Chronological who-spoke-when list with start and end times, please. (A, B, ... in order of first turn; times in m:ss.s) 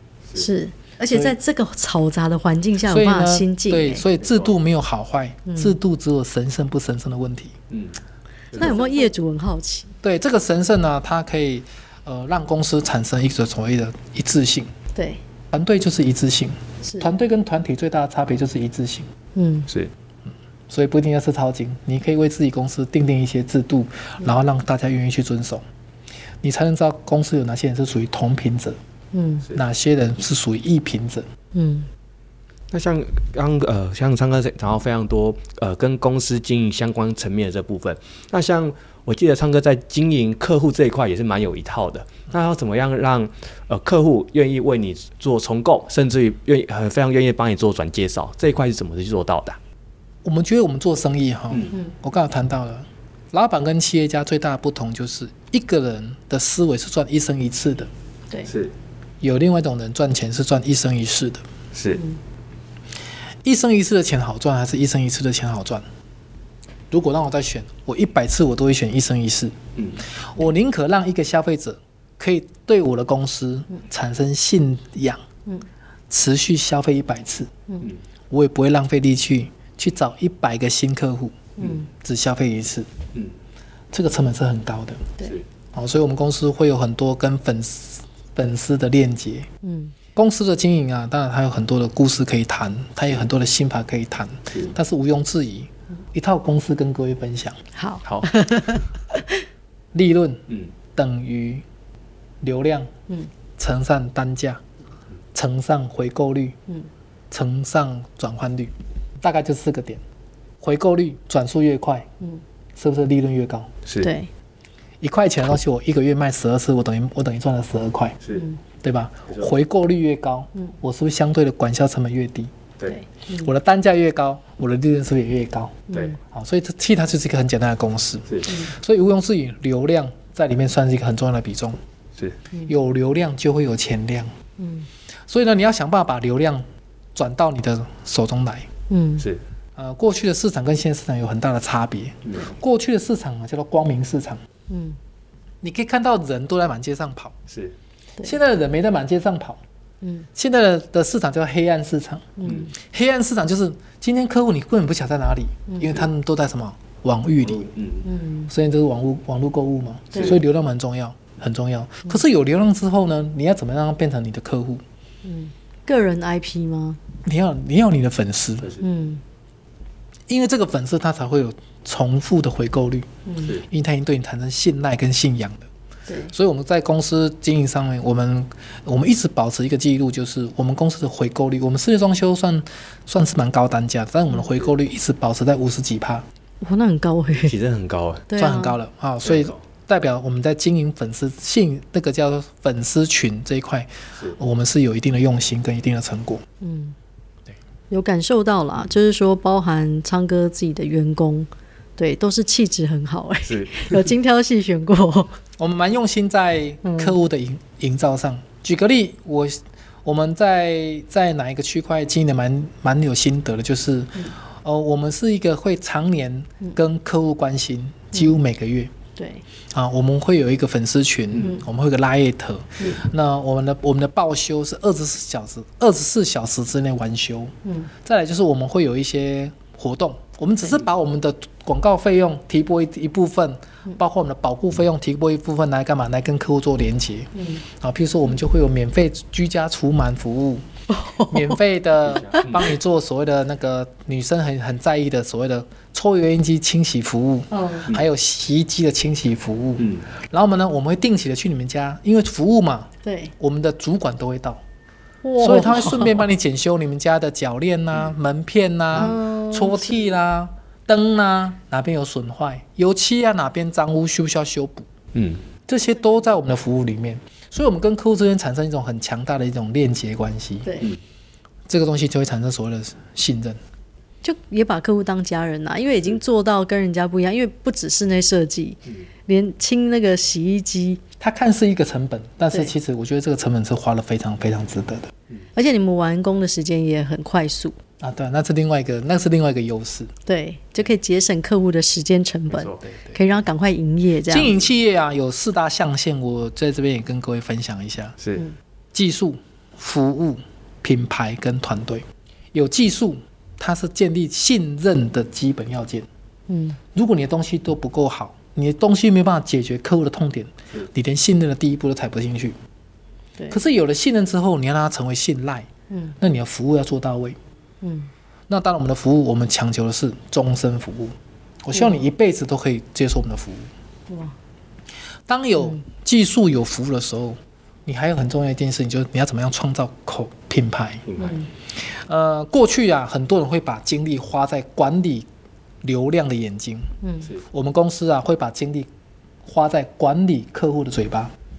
0:00.4-0:04.0 A
0:01.1-0:01.4 B
0:02.9-0:07.6 B
0:04.2-0:04.5 C
0:05.5-0:05.8 A
0:07.7-0:08.0 C
0:08.5-0:09.0 C
0:08.5-0:09.9 A
0:10.0-0:14.7 B
0:15.0-0:15.2 A
0:15.5-0:19.1 B
0:16.8-0:17.1 A
0:19.4-0:19.7 A
0:20.3-0:25.6 B
0:26.4-0:28.8 B
0:29.1-0:29.5 A
0:29.5-0:31.3 B
0:31.5-0:31.9 A
0:32.7-0:49.6 C
0:50.2-0:57.9 B
0:59.2-1:01.4 B
1:01.7-1:02.0 C
1:03.4-1:05.8 B
1:06.9-1:09.6 B
1:10.3-1:15.2 B
1:16.1-1:17.5 B
1:18.3-1:22.9 B
1:21.6-1:21.9 A
1:23.9-1:25.1 B
1:25.7-1:29.5 B
1:29.6-1:30.0 A
1:30.2-1:37.6 B
1:37.8-1:39.4 A
1:39.9-1:41.6 B
1:42.4-1:42.9 B
1:43.6-1:44.6 B
1:45.4-1:46.6 B
1:47.3-1:50.0 B
1:50.6-1:52.1 B
1:52.8-1:53.7 B
1:54.0-1:54.3 A
1:55.0-1:58.2 B
1:58.3-1:58.6 A
1:58.8-2:02.5 B
2:02.9-2:03.5 A
2:03.4-2:11.8 B
2:05.9-2:06.2 A
2:08.3-2:08.6 C
2:12.7-2:14.3 B
2:14.6-2:14.9 A
2:15.3-2:18.7 B
2:18.9-2:19.3 A
2:19.8-2:24.4 B
2:22.2-2:22.5 C
2:24.7-2:25.0 A
2:25.6-2:27.4 B
2:27.5-2:27.8 C
2:28.2-2:29.6 B
2:30.0-2:30.3 A
2:30.4-2:37.7 B
2:32.4-2:32.7 A
2:35.7-2:35.9 A
2:37.4-2:38.1 C
2:38.0-2:38.5 A
2:38.5-2:44.8 B
2:45.2-2:47.0 A
2:47.2-2:48.8 B
2:48.8-2:49.2 A
2:50.3-2:55.7 B
2:53.3-2:53.6 A
2:56.1-2:56.3 A
2:56.3-3:06.3 B
3:06.6-3:07.6 A
3:07.3-3:08.3 C
3:08.3-3:08.8 A
3:08.4-3:16.4 B
3:09.2-3:09.5 C
3:16.6-3:17.0 A
3:17.9-3:25.4 A
3:23.5-3:24.1 C
3:25.6-3:38.9 B
3:26.8-3:27.2 A
3:39.2-3:39.4 A
3:39.7-4:00.6 B
3:47.6-3:47.9 A
3:57.4-3:57.6 A
4:00.9-4:01.6 A
4:01.2-4:14.6 B
4:02.0-4:02.6 C
4:07.5-4:07.9 A
4:13.0-4:13.3 A
4:15.2-4:16.2 A
4:15.4-4:24.9 B
4:18.9-4:20.1 A
4:25.1-4:25.4 C
4:25.7-4:30.9 B
4:30.6-4:30.9 A
4:31.7-4:33.6 B
4:34.2-4:41.0 A
4:41.2-4:45.1 B
4:45.6-4:47.8 A
4:48.0-4:50.1 B
4:50.3-4:54.5 A
4:52.5-4:52.8 C
4:54.3-4:58.2 B
4:58.2-4:58.5 C
4:58.9-5:06.1 B
5:06.5-5:06.8 A
5:06.9-5:12.6 B
5:13.5-5:15.7 B
5:15.9-5:16.2 A
5:16.2-5:17.4 B
5:17.8-5:18.1 A
5:18.5-5:23.7 B
5:21.7-5:22.0 A
5:24.1-5:24.4 A
5:25.3-5:31.1 B
5:31.1-5:31.4 C
5:31.2-5:31.5 A
5:31.8-5:35.3 B
5:35.8-5:36.9 B
5:37.0-5:37.3 A
5:37.5-5:38.9 B
5:39.4-5:41.3 B